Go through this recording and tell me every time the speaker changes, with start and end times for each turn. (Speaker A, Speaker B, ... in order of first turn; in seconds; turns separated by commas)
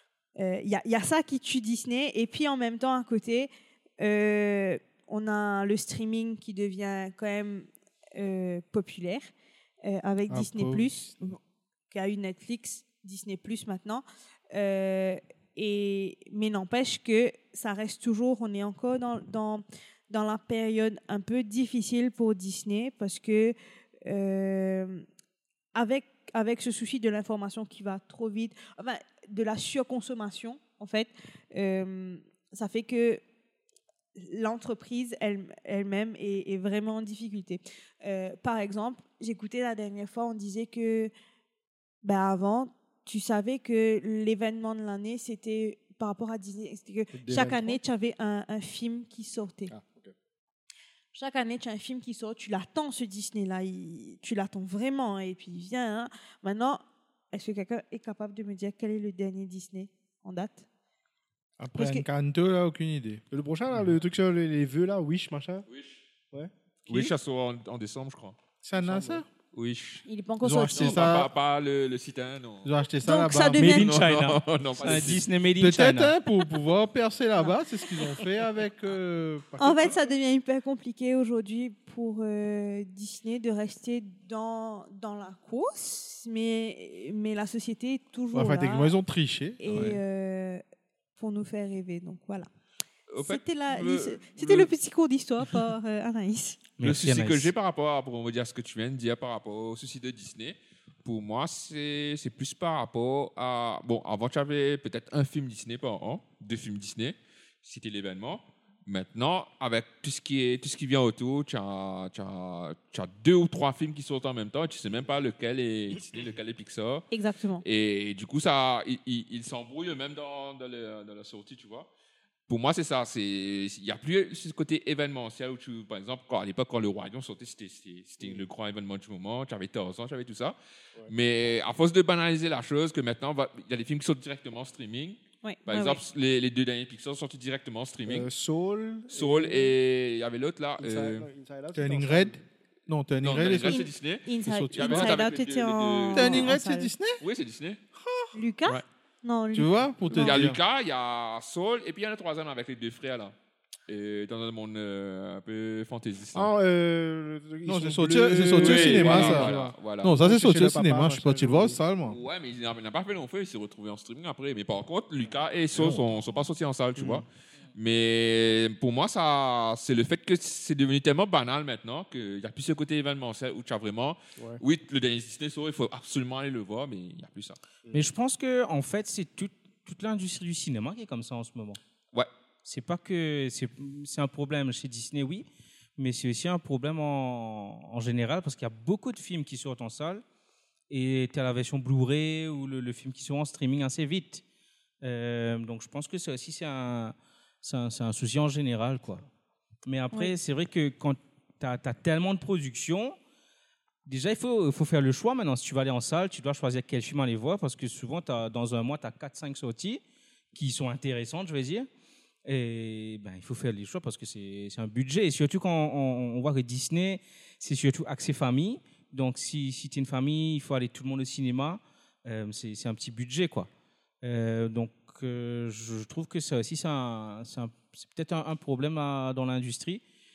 Speaker A: 0.3-9.3, Speaker A: 9.8-11.4, Speaker B: 10.3-11.1, Speaker A: 11.9-25.0, Speaker A: 25.7-33.2, Speaker A: 34.2-41.1, Speaker A: 42.0-49.7, Speaker C: 47.1-47.8, Speaker C: 49.7-50.1, Speaker A: 51.1-60.6, Speaker B: 61.6-63.2, Speaker A: 61.8-62.0, Speaker C: 63.3-65.7, Speaker D: 65.7-66.0, Speaker D: 66.9-68.4, Speaker B: 68.6-69.2, Speaker C: 68.8-69.2, Speaker D: 69.5-70.0, Speaker A: 70.0-71.1, Speaker B: 70.4-71.3, Speaker D: 70.7-72.7, Speaker B: 72.6-73.8, Speaker A: 73.0-74.0, Speaker E: 73.5-76.1, Speaker D: 73.7-75.2, Speaker B: 75.6-80.0, Speaker A: 79.6-89.0, Speaker B: 88.3-90.0, Speaker A: 89.6-90.6, Speaker D: 89.7-90.0, Speaker A: 91.2-92.5, Speaker D: 93.1-94.7, Speaker A: 93.2-96.6, Speaker E: 96.8-97.5, Speaker D: 96.8-117.1, Speaker A: 117.1-117.6, Speaker D: 117.6-121.9, Speaker D: 122.5-138.3, Speaker A: 135.4-136.0, Speaker C: 138.1-139.7, Speaker D: 139.1-141.3, Speaker C: 140.8-142.4, Speaker B: 141.7-143.9, Speaker D: 143.2-146.6, Speaker A: 143.6-146.9, Speaker B: 144.4-145.2, Speaker B: 146.1-147.2, Speaker D: 147.2-147.8, Speaker A: 148.3-150.4, Speaker B: 149.5-150.6, Speaker D: 150.1-153.3, Speaker D: 153.9-156.5, Speaker C: 156.3-161.8, Speaker B: 157.7-162.2, Speaker D: 158.5-160.1, Speaker D: 162.1-177.6, Speaker B: 165.7-166.2, Speaker C: 167.0-167.2, Speaker E: 177.9-181.8, Speaker E: 182.6-185.4, Speaker E: 186.0-190.2, Speaker E: 190.9-194.4, Speaker E: 195.0-199.2, Speaker E: 199.8-203.2, Speaker E: 204.1-210.0, Speaker E: 210.5-211.9, Speaker E: 212.4-223.7, Speaker E: 224.2-230.0